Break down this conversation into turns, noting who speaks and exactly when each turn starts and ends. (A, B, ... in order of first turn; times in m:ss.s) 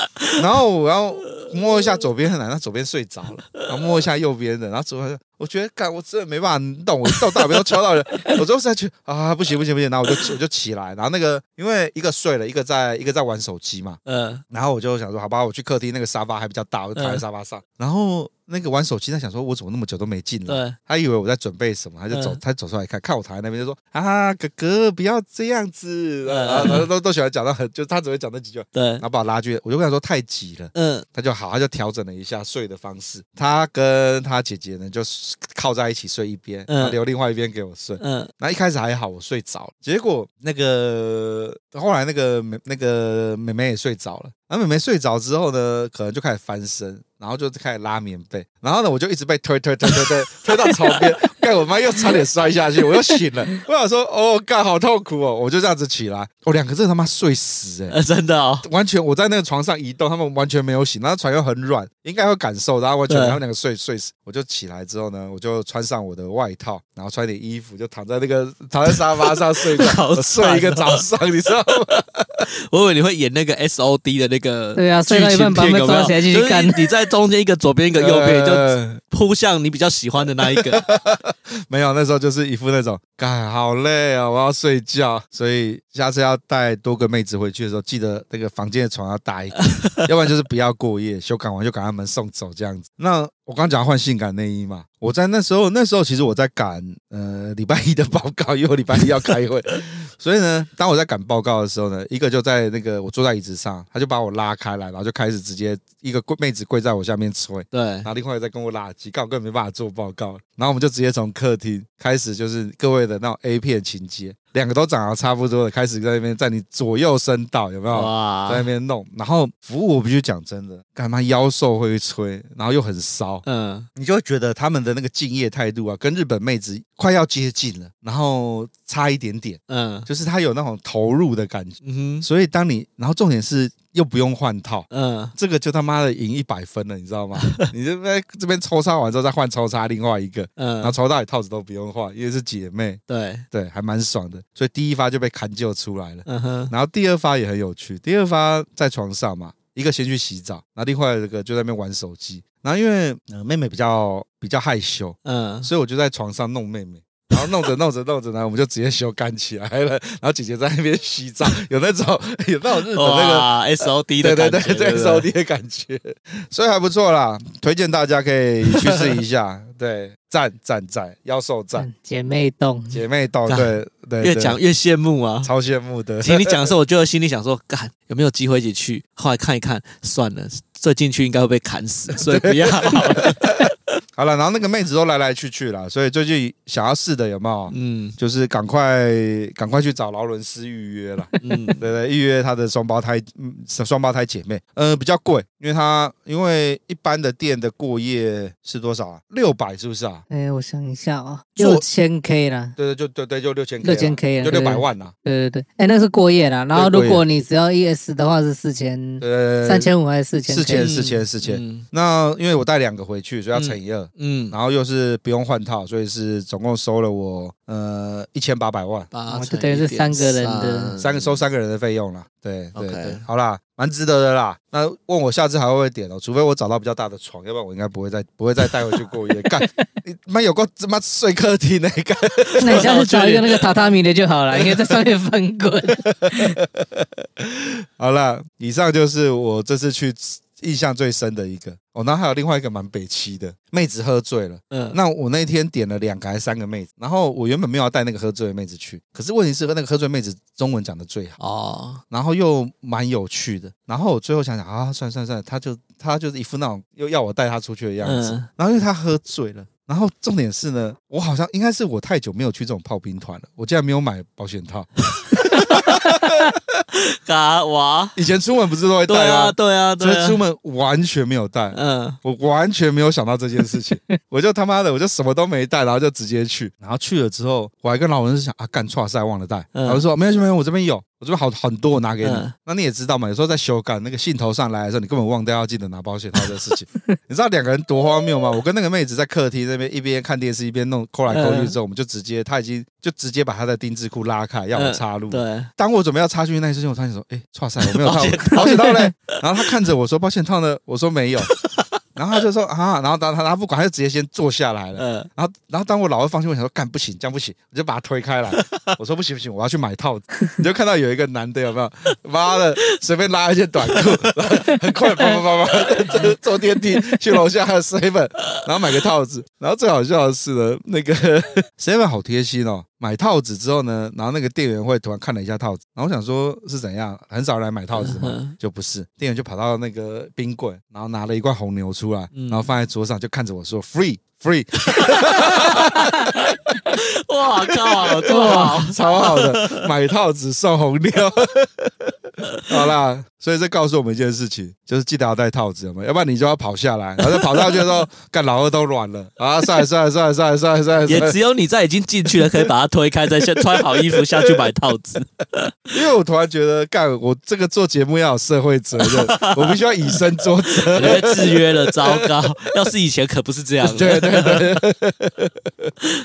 0:00.4-0:58.0 A
0:14.1-0:14.4 B
0:17.0-0:17.2 B
0:20.5-0:20.8 B
0:22.1-0:22.4 B
0:26.3-0:26.9 B
0:28.7-0:29.0 B
0:30.7-0:31.0 B
0:36.7-0:37.0 B
0:38.0-0:38.3 B
0:50.7-0:51.3 B
0:53.1-0:53.6 B
0:57.9-0:58.7 B
0:58.6-1:12.4 A
1:03.1-1:03.4 B
1:08.9-1:11.0 B
1:12.7-1:20.8 B
1:14.8-1:16.9 C
1:18.0-1:19.0 A
1:20.5-2:51.9 A
1:29.6-1:30.1 B
1:47.7-1:48.1 B
1:57.9-1:58.7 B
2:03.4-2:03.9 B
2:09.7-2:10.1 B
2:11.8-2:12.3 B
2:14.9-2:15.3 B
2:17.4-2:17.7 B
2:20.6-2:21.0 B
2:23.1-2:23.4 B
2:26.3-2:26.7 B
2:35.2-2:35.7 B
2:42.9-2:45.3 B
2:51.8-2:53.0 C
2:52.9-2:54.6 A
2:53.5-2:55.5 B
2:55.4-2:56.7 A
2:56.2-3:03.7 B
3:02.2-3:03.6 A
3:04.2-3:20.2 A
3:07.7-3:08.2 B
3:11.4-3:11.8 B
3:20.3-3:22.8 C
3:21.6-3:21.8 A
3:22.8-3:25.1 A
3:23.8-3:30.9 C
3:26.7-3:27.2 A
3:29.2-3:29.9 A
3:30.5-3:39.1 A
3:30.8-3:31.9 B
3:33.6-3:34.6 B
3:39.1-3:41.4 B
3:39.3-3:40.9 C
3:41.0-3:53.1 A
3:42.8-3:43.2 B
3:52.6-3:53.6 B
3:52.6-3:56.6 C
3:56.1-4:11.4 A
4:04.7-4:05.0 B
4:11.4-4:12.0 B
4:12.1-4:26.4 A
4:18.0-4:18.5 B
4:25.4-4:26.5 B
4:27.2-4:28.2 B
4:28.2-5:01.5 A
4:29.1-4:30.4 B
4:31.7-4:32.2 B
4:39.8-4:40.0 B
4:42.2-4:42.5 B
4:51.3-4:51.8 B
4:54.8-4:55.7 B
4:57.8-4:59.4 B
5:02.2-5:36.5 A
5:05.0-5:05.3 B
5:08.5-5:08.9 B
5:16.0-5:16.4 B
5:28.0-5:28.6 B
5:32.3-5:32.6 B
5:34.9-5:39.8 B
5:37.8-5:42.1 A
5:38.3-5:38.8 C
5:42.7-5:51.4 A
5:47.2-5:48.0 B
5:51.1-5:55.9 B
5:52.3-5:52.7 A
5:53.7-5:54.7 A
5:55.9-6:02.9 A
5:59.0-6:00.2 B
6:00.9-6:04.8 B
6:03.8-6:05.9 A